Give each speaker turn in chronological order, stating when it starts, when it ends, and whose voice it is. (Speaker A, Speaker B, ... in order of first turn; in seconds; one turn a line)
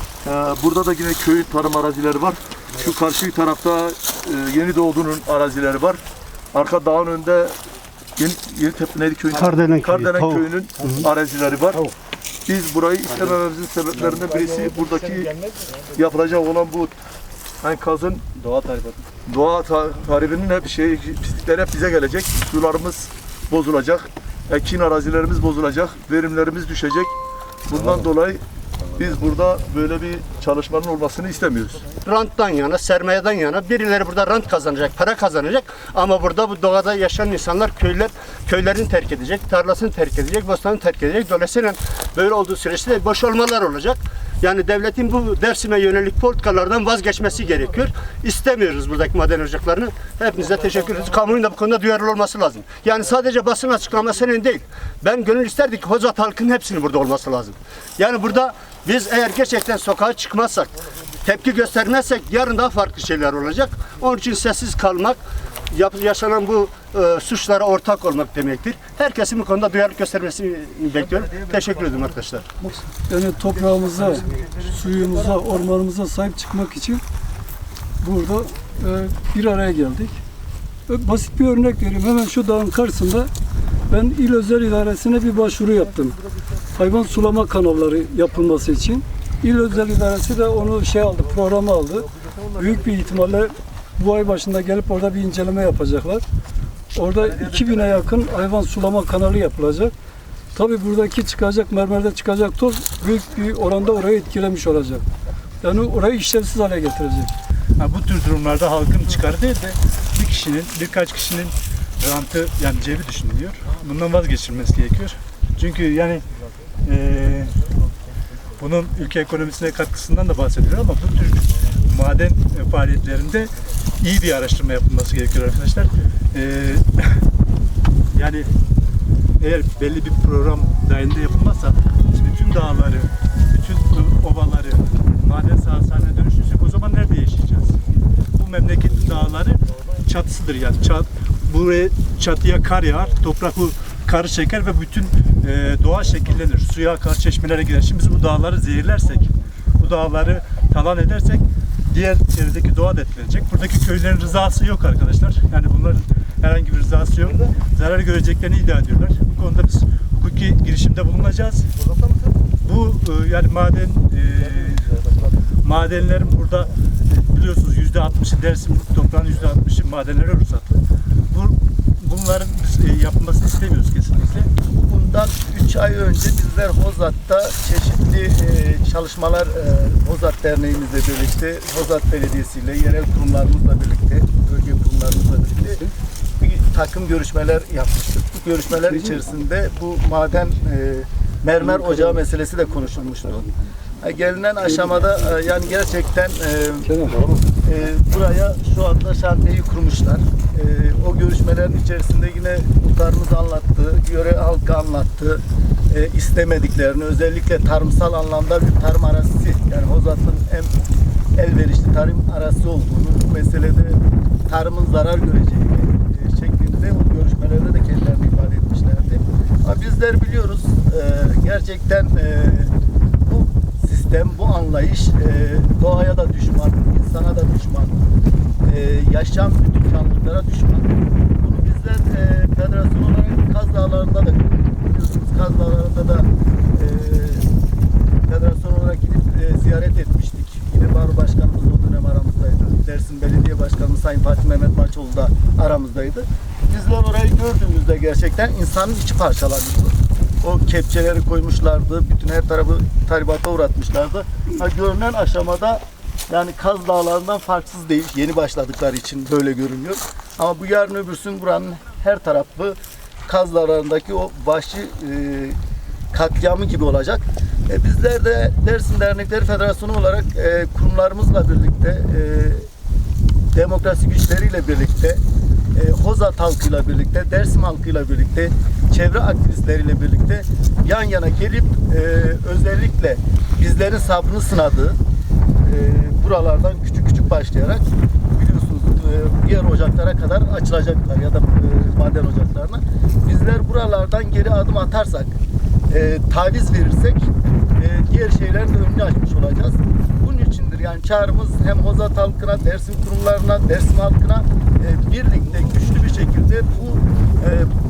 Speaker A: 0.3-2.3
Speaker B: 0.6-2.3
Speaker A: 2.8-5.9
Speaker B: 2.8-3.8
Speaker B: 4.6-6.0
Speaker A: 6.5-7.4
Speaker B: 6.6-7.3
Speaker A: 8.2-11.8
Speaker B: 8.7-9.4
Speaker C: 9.4-10.4
Speaker B: 10.5-11.7
Speaker A: 12.5-15.3
Speaker B: 12.7-15.2
Speaker A: 15.9-16.9
Speaker B: 16.1-16.4
Speaker A: 17.6-22.9
Speaker B: 17.7-18.2
Speaker B: 19.3-20.2
Speaker B: 22.1-22.9
Speaker A: 23.5-24.0
Speaker B: 23.7-23.9
Speaker A: 24.5-27.0
Speaker B: 24.8-27.1
Speaker A: 27.7-28.4
Speaker B: 27.7-28.3
Speaker A: 29.0-31.7
Speaker B: 29.0-31.7
Speaker C: 32.0-72.5
Speaker B: 72.6-77.0
Speaker B: 78.0-80.2
Speaker B: 80.9-83.3
Speaker B: 83.9-86.2
Speaker B: 86.7-96.2
Speaker B: 96.9-99.9
Speaker B: 100.5-105.0
Speaker B: 105.6-107.3
Speaker D: 107.8-116.2
Speaker D: 116.8-117.6
Speaker D: 118.6-127.2
Speaker D: 128.1-128.5
Speaker D: 129.4-137.8
Speaker D: 138.4-161.7
Speaker D: 162.6-164.9
Speaker D: 165.6-174.5
Speaker E: 174.8-185.9
Speaker E: 186.4-193.5
Speaker B: 188.9-189.2
Speaker E: 194.0-197.0
Speaker B: 194.6-195.3
Speaker B: 196.8-197.2
Speaker E: 197.6-210.7
Speaker E: 211.3-222.7
Speaker E: 223.3-228.0
Speaker E: 228.6-237.4
Speaker E: 238.3-265.6
Speaker E: 266.1-272.6
Speaker E: 273.5-275.2
Speaker E: 275.7-285.0
Speaker E: 285.6-295.4
Speaker E: 295.9-307.7